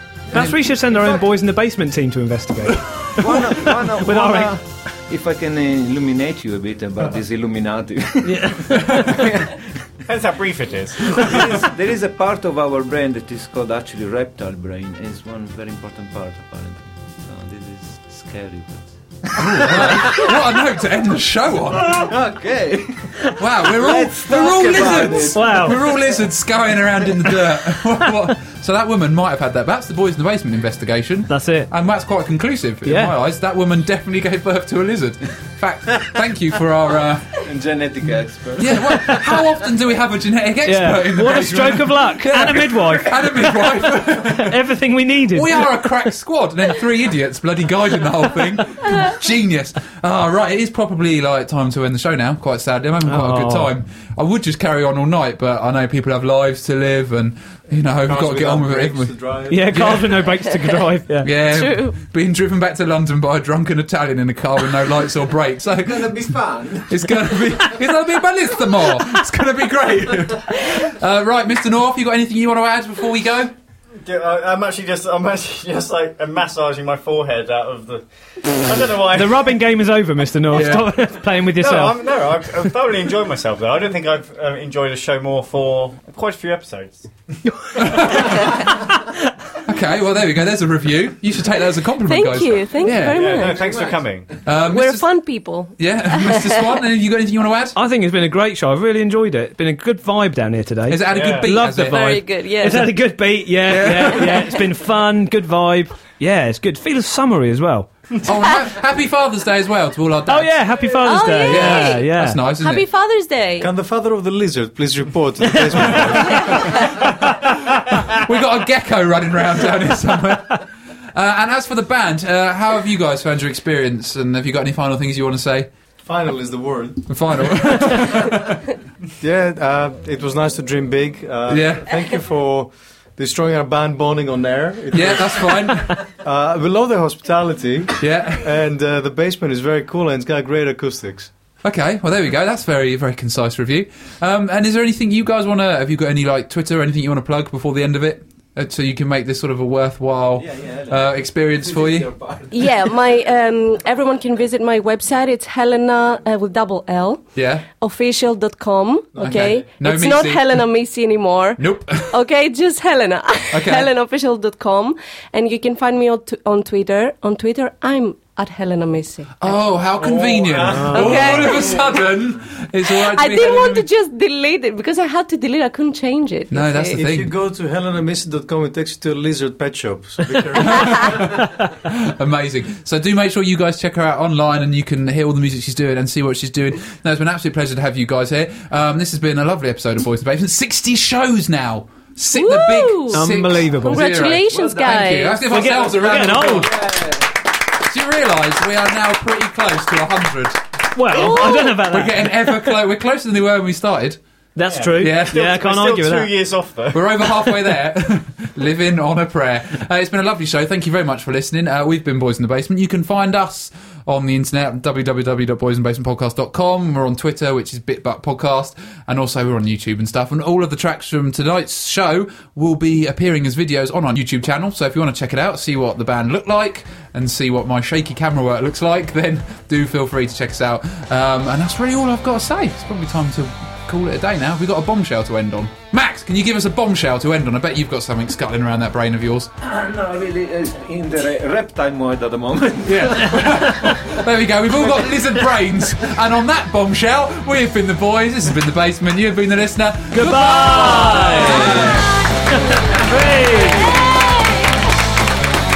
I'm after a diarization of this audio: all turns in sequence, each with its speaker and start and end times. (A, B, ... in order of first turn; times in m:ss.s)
0:00.3-0:01.2 A
0:00.3-0:04.6 B
0:00.3-0:00.6 C
0:03.2-0:09.3 A
0:08.2-0:09.2 B
0:10.1-0:11.5 D
0:11.1-0:20.4 A
0:19.4-0:22.1 C
0:21.7-0:26.2 A
0:23.4-0:37.4 C
0:24.9-0:25.8 B
0:31.3-0:31.7 B
0:32.8-0:33.2 B
0:37.4-0:39.2 A
0:38.6-0:44.6 C
0:40.6-0:43.7 B
0:44.3-0:45.9 B
0:45.3-1:00.3 C
0:53.0-0:53.7 B
0:58.0-0:59.8 E
0:59.5-1:01.3 B
1:01.2-1:13.5 C
1:01.4-1:02.0 F
1:05.8-1:07.0 A
1:14.0-1:19.6 D
1:19.1-1:22.7 B
1:20.5-1:20.9 C
1:21.5-1:27.1 D
1:27.6-1:28.3 B
1:27.8-1:28.7 C
1:29.6-1:33.6 C
1:32.0-1:33.6 F
1:33.1-1:34.3 D
1:33.6-1:34.1 A
1:34.4-1:35.1 C
1:34.7-1:36.7 F
1:35.8-1:37.8 C
1:37.8-1:48.0 B
1:40.9-1:42.3 C
1:41.1-1:41.6 D
1:41.9-1:42.9 F
1:43.7-1:44.5 C
1:48.2-1:50.9 C
1:50.3-1:52.4 B
1:51.0-1:53.7 F
1:51.5-1:52.8 C
1:53.6-1:56.8 E
1:56.7-1:57.5 C
1:58.1-2:05.7 C
2:06.0-2:08.3 E
2:07.1-2:08.6 C
2:09.2-2:21.3 E
2:11.5-2:12.1 C
2:14.9-2:16.0 C
2:18.0-2:18.5 C
2:21.6-2:32.2 C
2:30.4-2:32.6 A
2:32.5-2:37.2 F
2:37.4-2:37.7 C
2:37.8-2:49.6 F
2:39.2-2:40.6 C
2:41.6-2:42.1 C
2:43.5-2:43.9 C
2:49.4-2:53.8 C
2:50.0-2:51.8 D
2:50.6-2:51.2 B
2:50.9-2:52.0 F
2:52.9-2:57.0 F
2:56.5-2:57.3 C
2:56.9-3:01.3 E
3:00.6-3:16.9 C
3:12.3-3:13.3 F
3:13.1-3:14.2 B
3:13.8-3:15.4 F
3:14.5-3:14.8 A
3:15.4-3:16.8 B
3:16.7-3:17.2 A
3:17.8-3:24.2 C
3:20.9-3:22.4 B
3:21.1-3:21.7 F
3:24.6-3:26.3 B
3:24.7-3:27.4 D
3:25.0-3:25.4 C
3:26.9-3:59.5 C
3:59.6-4:04.2 A
4:02.8-4:12.1 C
4:04.8-4:05.2 A
4:10.1-4:14.0 B
4:13.6-4:14.8 F